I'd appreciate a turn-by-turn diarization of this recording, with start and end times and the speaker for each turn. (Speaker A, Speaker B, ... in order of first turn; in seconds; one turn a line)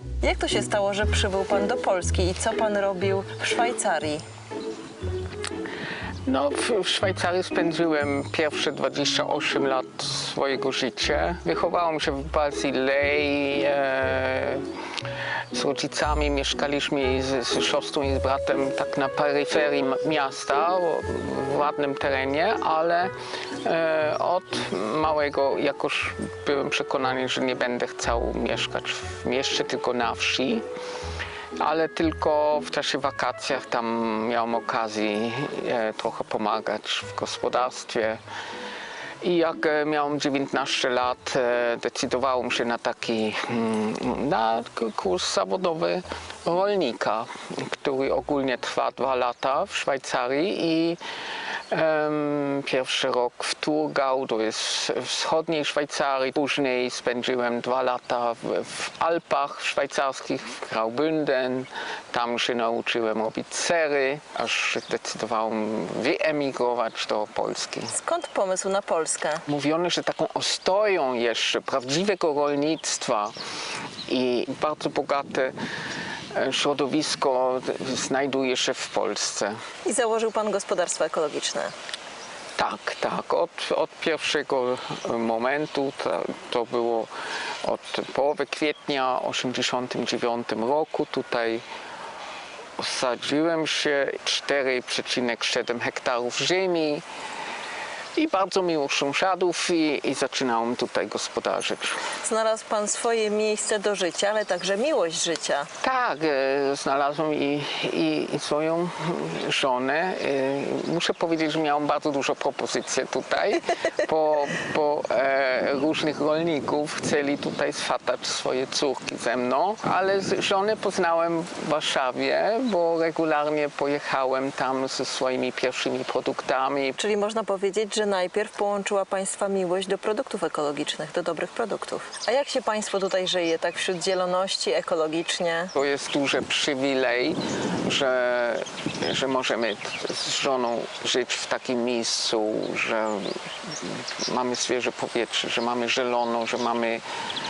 Speaker A: 0.2-4.2
Speaker B: 6.3-14.6
Speaker B: 15.5-23.1
Speaker B: 23.6-30.6
Speaker B: 31.6-38.2
Speaker B: 39.2-51.0
Speaker B: 51.7-67.9
Speaker A: 67.9-69.4
Speaker B: 69.5-73.3
Speaker B: 74.1-75.5
Speaker B: 76.3-79.6
Speaker A: 79.8-81.7
Speaker B: 82.6-87.1
Speaker B: 87.6-91.6
Speaker B: 92.8-97.0
Speaker B: 98.2-102.0
Speaker A: 102.2-105.7
Speaker B: 105.8-127.0
Speaker A: 127.0-135.7
Speaker B: 135.8-147.0